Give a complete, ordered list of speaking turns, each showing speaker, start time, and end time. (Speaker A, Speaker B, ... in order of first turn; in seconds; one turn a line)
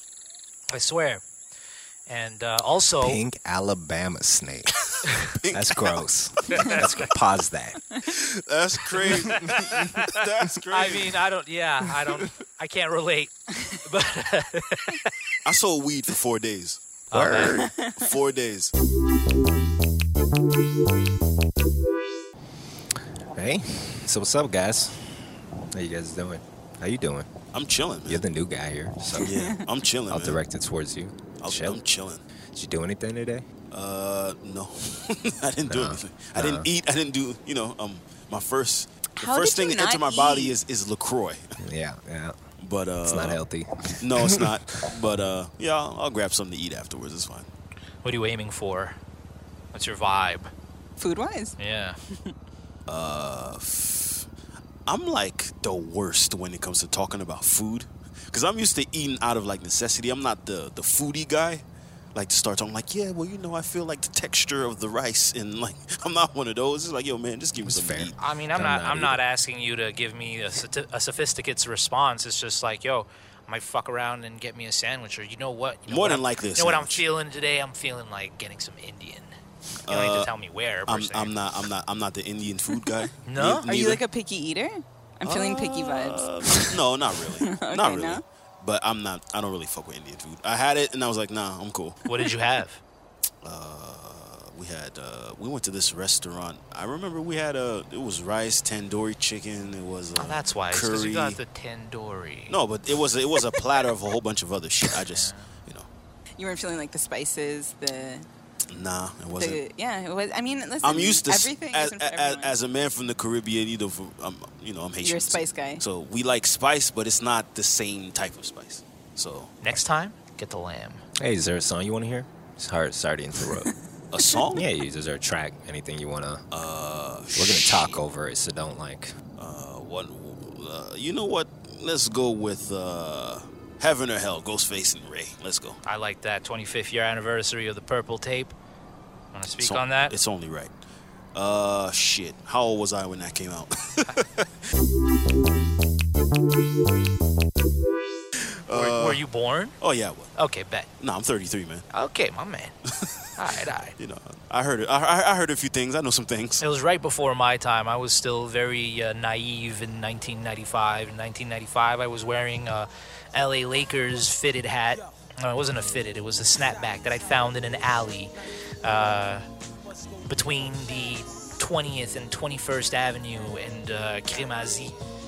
Speaker A: 0.7-1.2
Speaker A: 2.1-3.2
Speaker B: 3.0-4.7
Speaker C: 5.4-6.0
Speaker B: 5.5-7.8
Speaker C: 8.1-11.2
Speaker A: 9.0-15.1
Speaker C: 15.4-16.8
Speaker A: 17.1-17.6
Speaker B: 17.1-17.8
Speaker D: 17.6-18.1
Speaker C: 17.9-18.7
Speaker B: 23.3-27.3
Speaker C: 27.5-28.2
Speaker B: 28.1-29.4
Speaker D: 29.2-29.5
Speaker C: 29.2-30.4
Speaker B: 30.1-31.8
Speaker C: 31.4-32.2
Speaker B: 32.5-33.5
Speaker C: 33.7-41.5
Speaker B: 35.7-36.7
Speaker D: 39.2-40.6
Speaker B: 41.6-42.4
Speaker C: 42.6-43.4
Speaker B: 43.0-44.9
Speaker C: 44.0-47.5
Speaker A: 48.0-49.0
Speaker A: 49.7-50.5
Speaker D: 51.0-51.6
Speaker A: 51.6-52.0
Speaker D: 52.1-52.4
Speaker C: 52.9-54.3
Speaker C: 54.9-68.2
Speaker B: 67.7-69.2
Speaker A: 68.2-79.3
Speaker C: 75.9-77.0
Speaker C: 79.9-80.3
Speaker A: 79.9-81.3
Speaker C: 80.9-84.0
Speaker A: 83.3-83.7
Speaker D: 83.7-86.6
Speaker C: 85.2-92.0
Speaker D: 87.5-88.2
Speaker A: 92.1-92.8
Speaker C: 93.4-101.4
Speaker A: 100.2-102.6
Speaker C: 102.5-105.9
Speaker A: 105.0-105.5
Speaker D: 106.4-108.3
Speaker C: 108.7-109.6
Speaker D: 109.4-112.6
Speaker C: 110.8-119.5
Speaker D: 115.0-115.8
Speaker A: 119.6-121.0
Speaker B: 121.2-123.7
Speaker C: 124.1-124.7
Speaker B: 124.5-126.4
Speaker C: 126.5-128.0
Speaker B: 127.3-129.1
Speaker C: 129.4-135.8
Speaker A: 135.9-138.6
Speaker A: 139.3-140.1
Speaker C: 139.6-140.7
Speaker C: 141.3-144.5
Speaker C: 148.7-149.2
Speaker A: 148.7-149.8
Speaker C: 149.8-150.3
Speaker A: 150.4-150.9
Speaker C: 151.0-151.9
Speaker A: 151.9-152.8
Speaker A: 153.4-153.9
Speaker C: 154.0-156.6
Speaker A: 156.6-169.5
Speaker A: 170.3-175.0